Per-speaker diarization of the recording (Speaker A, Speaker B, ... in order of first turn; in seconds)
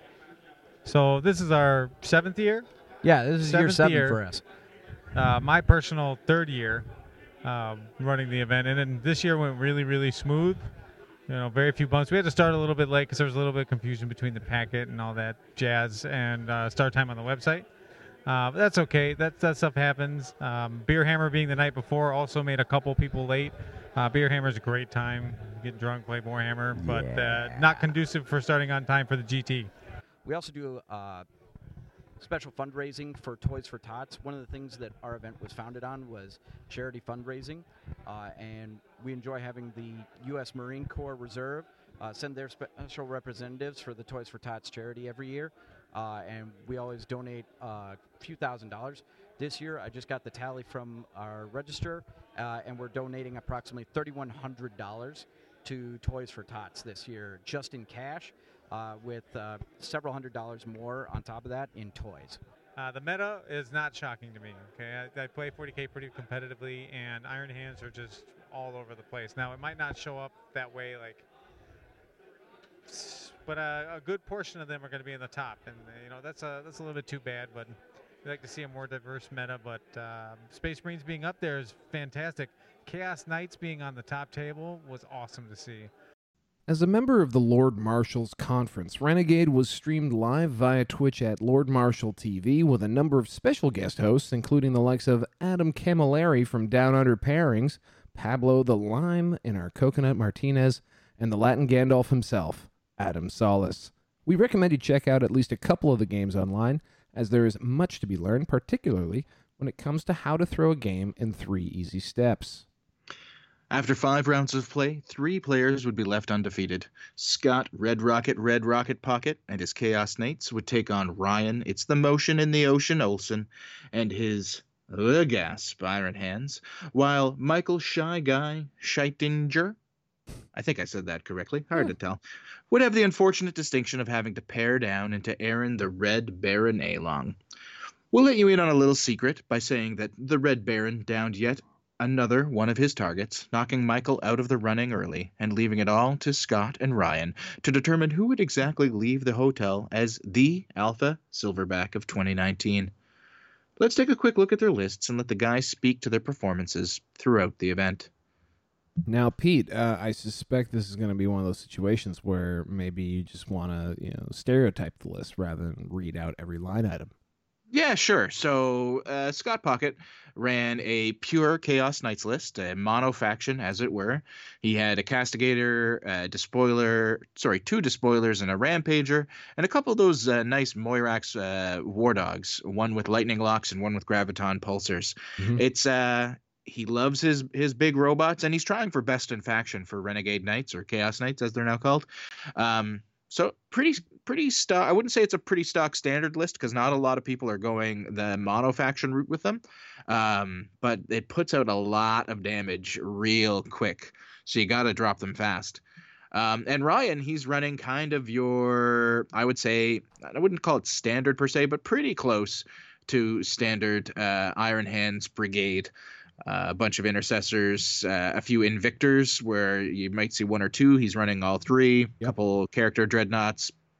Speaker A: 0.8-2.7, 3.4-4.2, 5.1-6.9, 7.4-10.7, 11.3-17.7, 18.2-29.7, 62.8-71.2, 72.9-85.9
Speaker B: 3.0-4.4, 26.8-27.4, 30.2-31.2, 32.2-62.4
Speaker C: 86.7-112.6, 159.1-167.1
Speaker D: 113.7-129.8, 130.5-137.3, 138.1-152.9, 153.8-158.1, 167.7-205.8, 206.3-215.9, 216.4-223.7